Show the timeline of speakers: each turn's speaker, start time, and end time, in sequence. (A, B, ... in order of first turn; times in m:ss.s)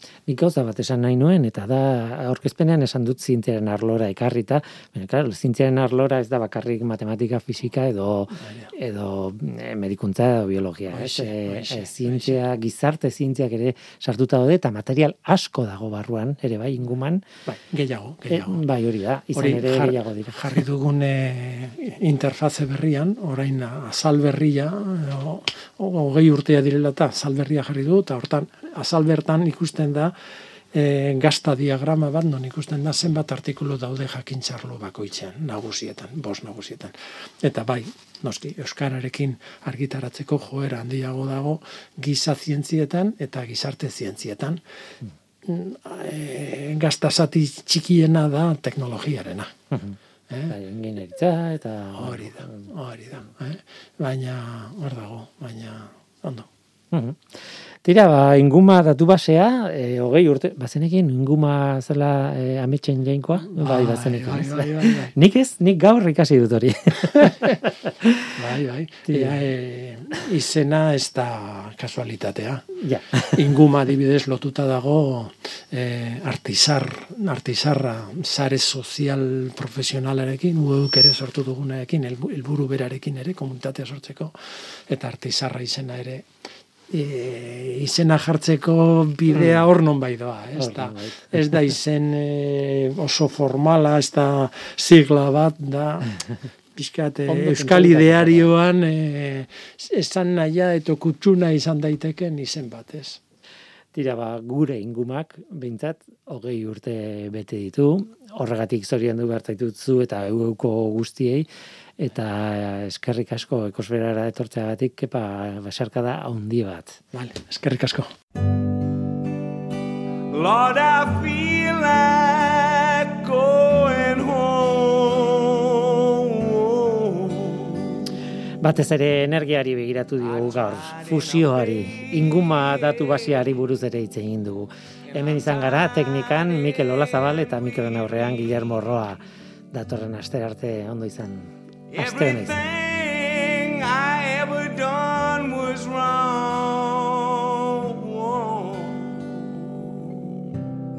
0:00.3-0:17.2 A
0:08.4-0:08.7 B
0:10.9-0:12.4 B
0:17.4-0:18.6 B
0:18.3-0:20.6 A
0:19.3-0:30.1 B
0:30.7-0:44.6 B
0:45.4-0:49.5 B
0:50.3-0:50.5 B
0:50.5-0:52.6 A
0:51.9-0:56.5 B
0:56.9-0:57.2 A
0:57.8-1:08.3 A
1:03.5-1:05.1 B
1:08.4-1:26.3 B
1:12.8-1:13.2 A
1:26.9-1:36.2 B
1:30.6-1:31.3 A
1:36.8-1:43.2 B
1:37.3-1:38.5 A
1:43.9-1:51.5 A
1:52.0-1:57.0 A
1:57.1-1:58.1 B
2:00.3-2:08.0 C
2:08.6-2:19.2 A
2:10.2-2:13.5 C
2:15.1-2:18.9 C
2:19.7-2:22.6 A
2:21.9-2:30.4 C